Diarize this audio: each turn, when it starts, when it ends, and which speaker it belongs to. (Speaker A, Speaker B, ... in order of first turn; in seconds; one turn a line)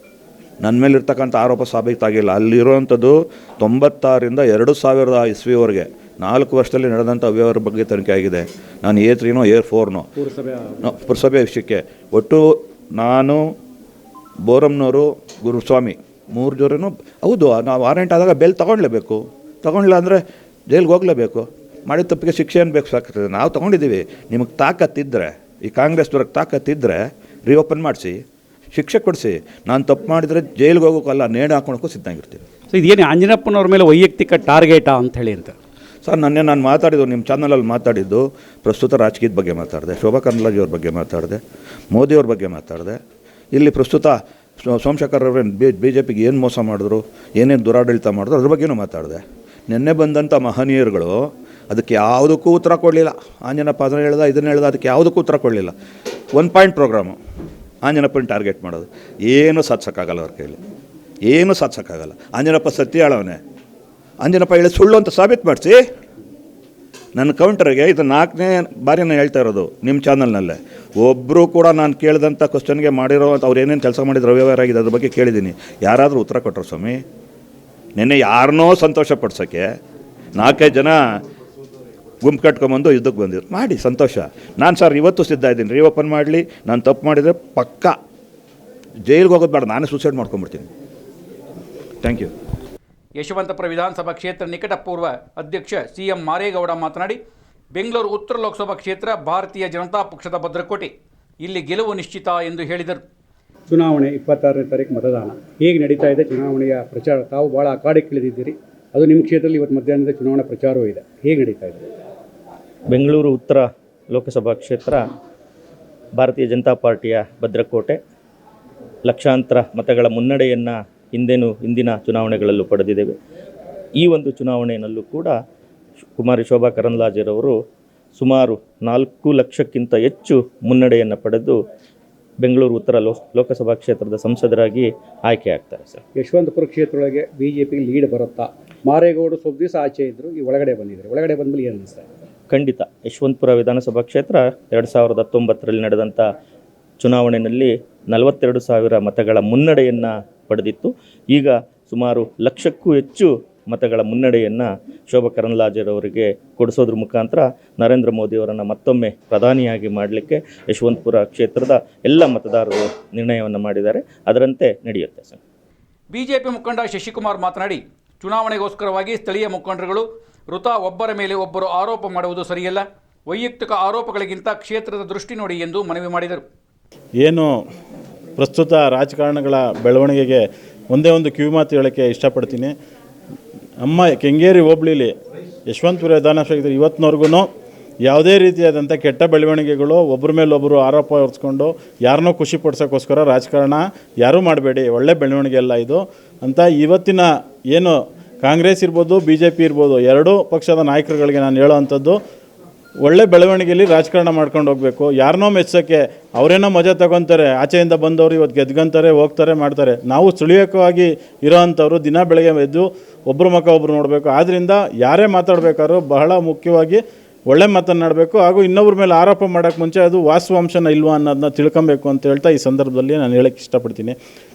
Speaker A: 0.6-10.1
Speaker B: 10.2-10.9
Speaker A: 10.8-13.4
Speaker A: 14.4-32.4
Speaker B: 32.7-35.5
Speaker A: 36.0-41.4
Speaker A: 41.9-43.0
Speaker A: 43.5-55.7
Speaker A: 56.3-57.2
Speaker A: 57.8-60.6
Speaker A: 61.3-63.4
Speaker A: 64.2-65.8
Speaker A: 67.2-77.0
Speaker A: 78.0-79.7
Speaker A: 80.3-81.0
Speaker A: 82.2-88.0
Speaker A: 89.0-90.7
Speaker A: 92.0-92.3
Speaker C: 93.2-97.2
Speaker C: 97.7-103.0
Speaker B: 103.7-111.8
Speaker D: 112.9-115.0
Speaker D: 116.2-118.0
Speaker D: 119.0-123.1
Speaker D: 124.0-125.4
Speaker D: 126.2-127.6
Speaker D: 128.2-131.6
Speaker D: 132.4-136.0
Speaker B: 136.2-142.1
Speaker D: 142.5-146.3
Speaker D: 147.0-165.4
Speaker C: 166.1-176.4
Speaker E: 177.2-177.6
Speaker E: 178.4-182.7
Speaker E: 183.8-185.1
Speaker E: 185.7-187.5
Speaker E: 188.0-202.2
Speaker E: 203.0-224.2